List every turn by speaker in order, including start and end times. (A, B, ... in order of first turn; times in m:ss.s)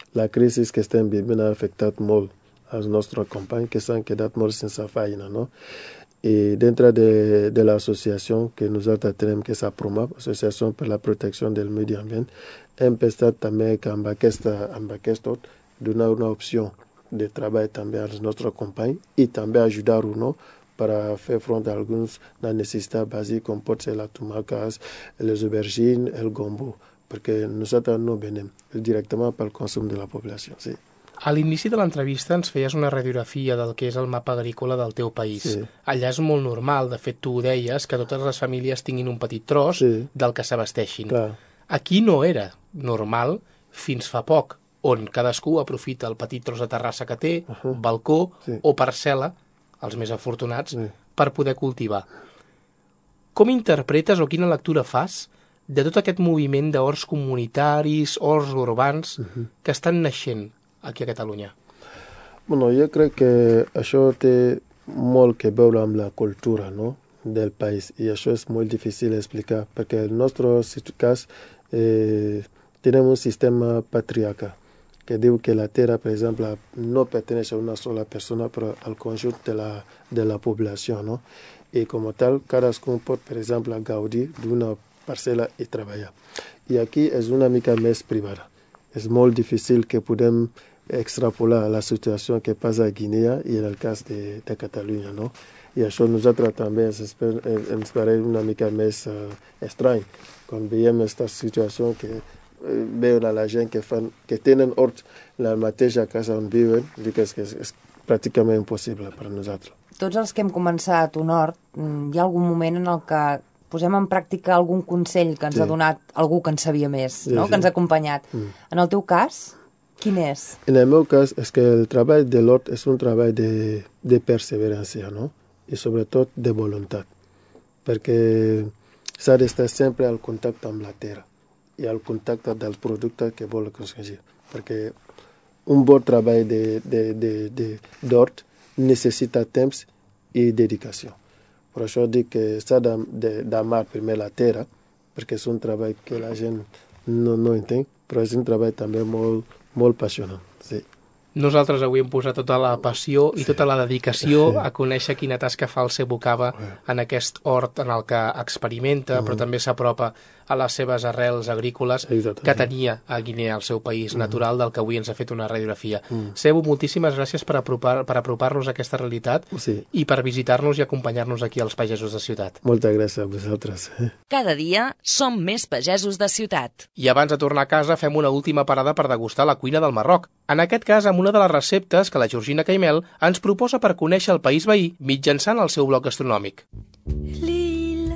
0:00.1-0:05.5 A
0:06.2-0:30.8 A
0:31.2-0:41.2 B
0:35.4-0:35.7 A
0:39.8-0:40.1 A
0:41.1-0:41.4 A
0:41.7-0:52.1 B
0:53.4-1:01.5 B
1:02.5-1:14.6 A
1:15.1-1:21.2 A
1:21.7-1:26.1 A
1:26.7-1:49.8 A
1:50.0-2:00.6 C
1:57.3-1:57.7 A
2:00.7-2:07.1 A
2:07.9-2:11.3 A
2:11.8-2:15.0 A
2:15.7-2:21.2 A
2:21.7-2:30.8 A
2:31.4-2:52.6 B
2:34.2-2:34.6 A
2:39.1-2:39.4 A
2:42.0-2:42.7 A
2:49.5-2:49.8 A
2:52.6-2:54.1 A
2:54.3-2:56.9 D
2:57.0-3:06.6 B